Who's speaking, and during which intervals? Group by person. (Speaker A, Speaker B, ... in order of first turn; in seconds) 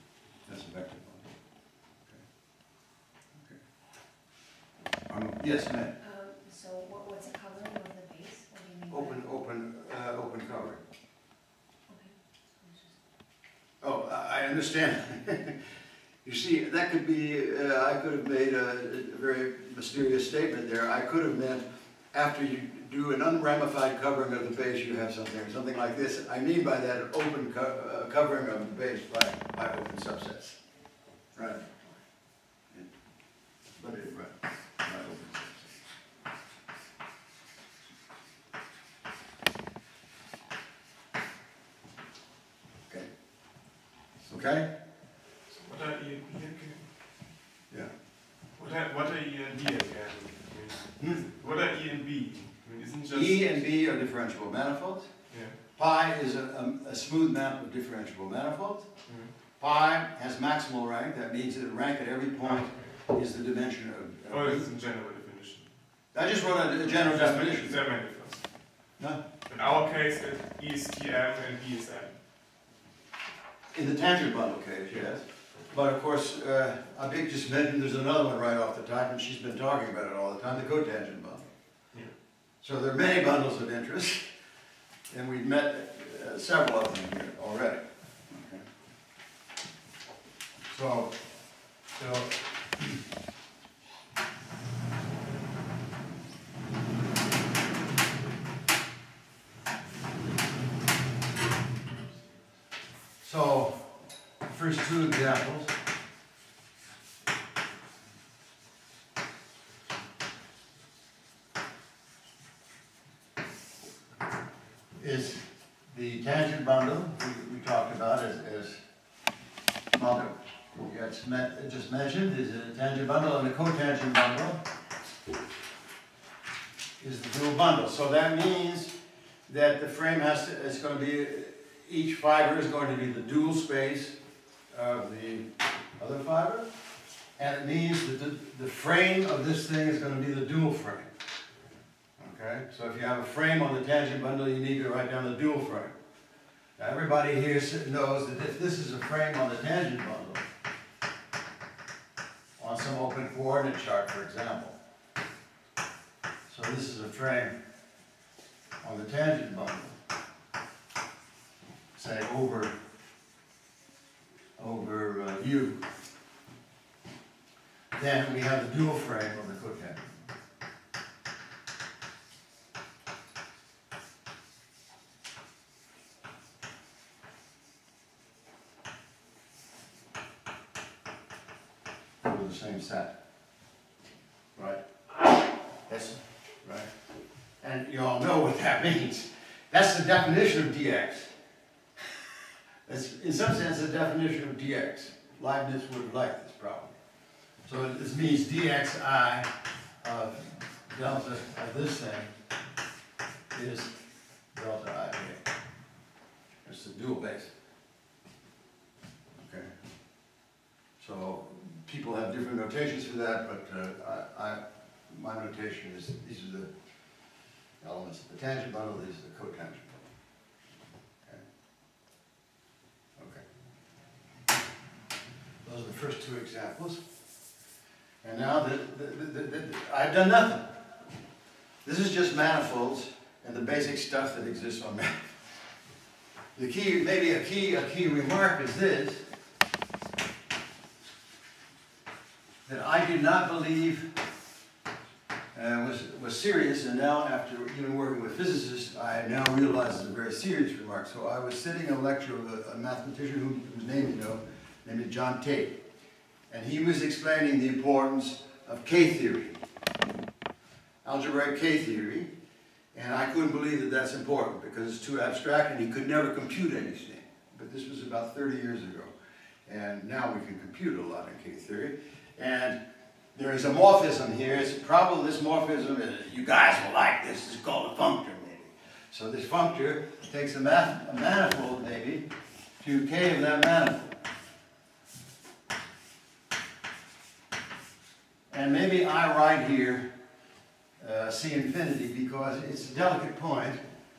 Speaker A: 0.4-1.3, 5.1-5.9, 8.9-10.8, 13.8-15.6, 16.2-30.6, 31.3-31.6, 33.8-35.5, 44.2-44.7, 51.0-51.2, 53.0-58.9, 59.6-64.7, 66.1-67.8, 69.0-69.8, 73.7-81.4, 82.6-84.2, 85.1-88.6, 90.7-91.1, 91.9-93.0, 103.2-103.9, 104.4-105.7, 115.0-118.8, 119.9-124.6, 127.0-128.9, 129.5-134.2, 134.7-135.5, 136.0-136.7, 137.4-141.1, 142.2-145.9, 146.8-150.5, 152.6-154.8, 156.5-157.5, 158.8-160.0, 161.9-162.7, 164.6-165.8, 167.9-170.0, 182.2-183.1, 184.6-184.8, 185.9-186.9, 187.6-191.3, 192.8-196.9, 197.7-199.5, 200.0-202.3, 203.5-203.9, 204.5-205.4, 206.6-207.5, 209.4-209.7, 211.0-216.7, 217.8-219.9, 223.2-223.4, 225.6-227.0, 228.2-230.7, 231.8-235.2, 236.6-239.2, 242.7-244.1, 245.5-255.8, 256.5-259.6, 261.0-262.3, 262.9-269.1, 269.6-272.8, 273.3-282.2, 282.8-284.1, 288.5-290.1, 291.0-293.8
Speaker B: 6.0-9.2, 11.9-13.0
Speaker C: 45.5-46.9, 48.5-53.6, 55.3-55.5, 59.1-59.3, 62.5-62.9, 64.3-66.0, 66.8-72.2